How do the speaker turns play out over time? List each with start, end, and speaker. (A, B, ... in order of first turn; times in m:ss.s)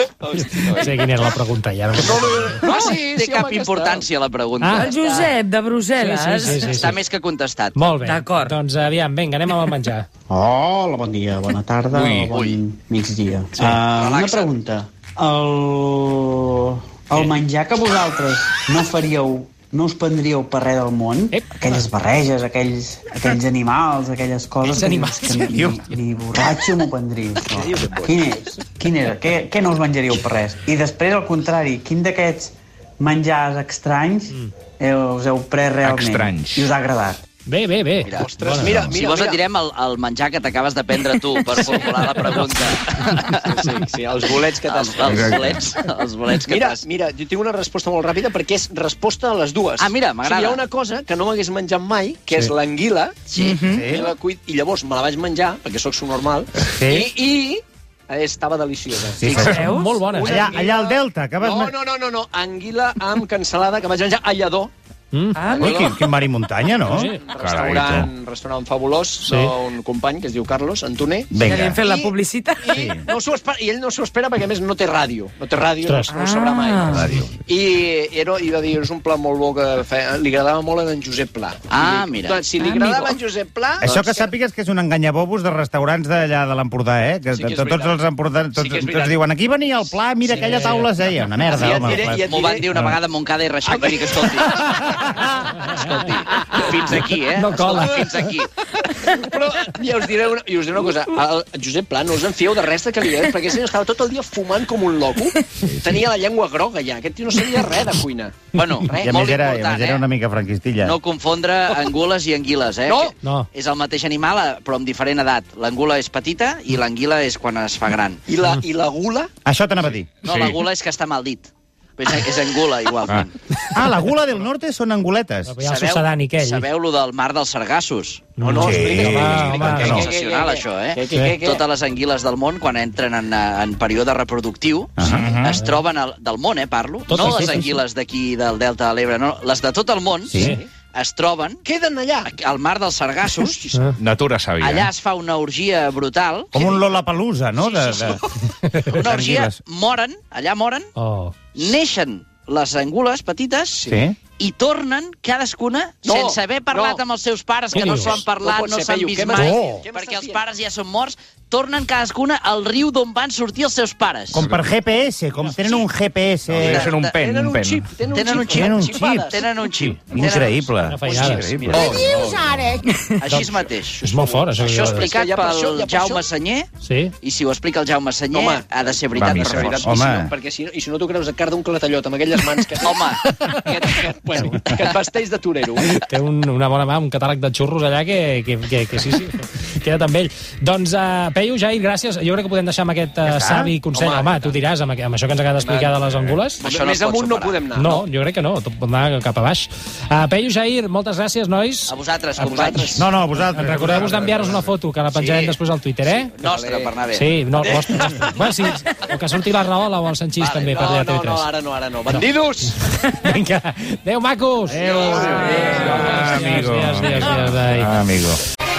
0:00.2-0:00.6 A
0:00.4-0:00.9 B
0:00.5-0:02.7 C
0:02.0-0:04.1 A
0:02.6-0:05.3 B
0:04.6-0:04.9 C
0:04.7-0:06.9 D
0:05.9-0:07.0 C
0:06.6-0:07.9 B
0:07.7-0:10.1 C
0:08.0-0:08.6 D
0:10.3-0:37.2 E
0:11.9-0:12.3 F
0:12.2-0:12.6 B
0:13.6-0:14.5 B
0:21.3-0:21.8 C
0:24.6-0:25.6 C
0:25.5-0:25.8 G
0:35.8-0:36.7 F
0:37.4-0:39.0 C
0:38.0-0:43.5 B
0:38.2-0:39.4 A
0:41.5-0:42.3 A
0:43.4-0:45.3 A
0:44.3-0:46.8 B
0:45.0-0:45.6 F
0:46.4-0:59.2 A
0:49.8-0:50.6 B
0:53.3-0:53.9 B
0:53.7-0:54.1 G
0:56.7-0:57.1 G
0:59.2-1:01.7 G
0:59.3-0:59.6 F
0:59.3-1:00.0 D
0:59.6-1:00.5 C
1:00.0-1:04.7 A
1:05.1-1:05.4 C
1:05.3-1:06.1 D
1:05.6-1:07.1 G
1:06.8-1:07.2 C
1:07.0-1:23.9 A
1:07.4-1:08.1 F
1:09.2-1:09.5 C
1:11.3-1:11.8 G
1:11.3-1:13.1 D
1:12.7-1:13.0 G
1:15.8-1:16.1 C
1:16.1-1:17.2 D
1:16.9-1:17.2 G
1:21.7-1:23.0 B
1:22.6-1:23.2 D
1:23.8-1:33.0 G
1:23.8-1:24.3 B
1:27.3-1:28.0 A
1:28.5-1:29.2 A
1:30.3-1:30.6 A
1:30.3-1:30.9 C
1:31.5-1:32.7 A
1:31.6-1:38.5 B
1:33.6-1:34.6 A
1:36.4-1:36.7 A
1:37.1-1:38.2 C
1:38.7-1:49.1 A
1:48.5-1:50.0 B
1:49.0-1:50.9 G
1:50.8-1:58.2 B
1:52.9-1:53.1 A
1:53.2-1:53.5 C
1:58.3-1:59.3 A
1:59.4-2:00.1 G
2:00.2-2:03.6 B
2:00.2-2:00.6 F
2:03.7-2:05.6 G
2:05.4-2:06.7 C
2:05.6-2:08.3 B
2:08.4-2:10.1 C
2:08.4-2:11.6 A
2:08.6-2:10.1 G
2:09.2-2:21.6 B
2:11.1-2:11.4 C
2:15.0-2:15.3 G
2:15.0-2:15.5 F
2:15.5-2:15.7 C
2:17.1-2:17.8 C
2:17.2-2:17.6 G
2:20.3-2:20.6 G
2:20.3-2:20.6 C
2:21.6-2:22.3 A
2:22.2-2:23.7 B
2:24.0-2:24.9 F
2:24.6-2:26.5 B
2:26.5-2:28.2 G
2:26.5-2:26.9 A
2:27.6-2:30.9 B
2:28.9-2:29.6 G
2:30.9-2:31.3 C
2:31.5-2:44.4 B
2:33.9-2:34.2 G
2:36.0-2:37.0 A
2:37.7-2:40.4 A
2:37.7-2:38.2 C
2:39.3-2:39.8 G
2:44.3-2:44.6 F
2:44.3-2:46.9 G
2:45.6-2:45.8 B
2:46.5-2:47.9 F
2:46.6-2:47.2 B
2:46.8-2:49.4 A
2:48.1-2:52.0 B
2:48.5-2:49.4 G
2:50.1-2:52.2 G
2:50.8-2:51.5 C
2:51.6-2:52.5 A
2:53.2-2:54.0 B
2:53.4-2:56.2 A
2:54.0-2:55.1 C
2:54.6-2:56.7 B
2:56.8-2:57.1 C
2:57.2-3:00.0 B
2:58.3-3:05.9 A
2:59.2-2:59.8 F
2:59.2-3:00.3 G
3:02.8-3:04.0 B
3:05.9-3:16.6 C
3:13.3-3:13.7 G
3:13.9-3:14.6 A
3:15.6-3:15.9 B
3:16.6-3:17.6 B
3:16.6-3:18.0 A
3:17.7-3:22.9 C
3:21.9-3:23.0 B
3:22.4-3:23.0 A
3:23.0-3:24.2 G
3:23.5-3:26.3 C
3:25.1-3:25.6 B
3:26.4-3:27.8 B
3:26.4-3:27.0 A
3:27.1-3:31.5 C
3:27.6-3:28.4 A
3:30.4-3:30.8 B
3:30.7-3:32.8 A
3:32.1-3:38.0 C
3:34.8-3:35.6 A
3:34.8-3:35.3 B
3:34.8-3:35.5 G
3:35.4-3:38.4 F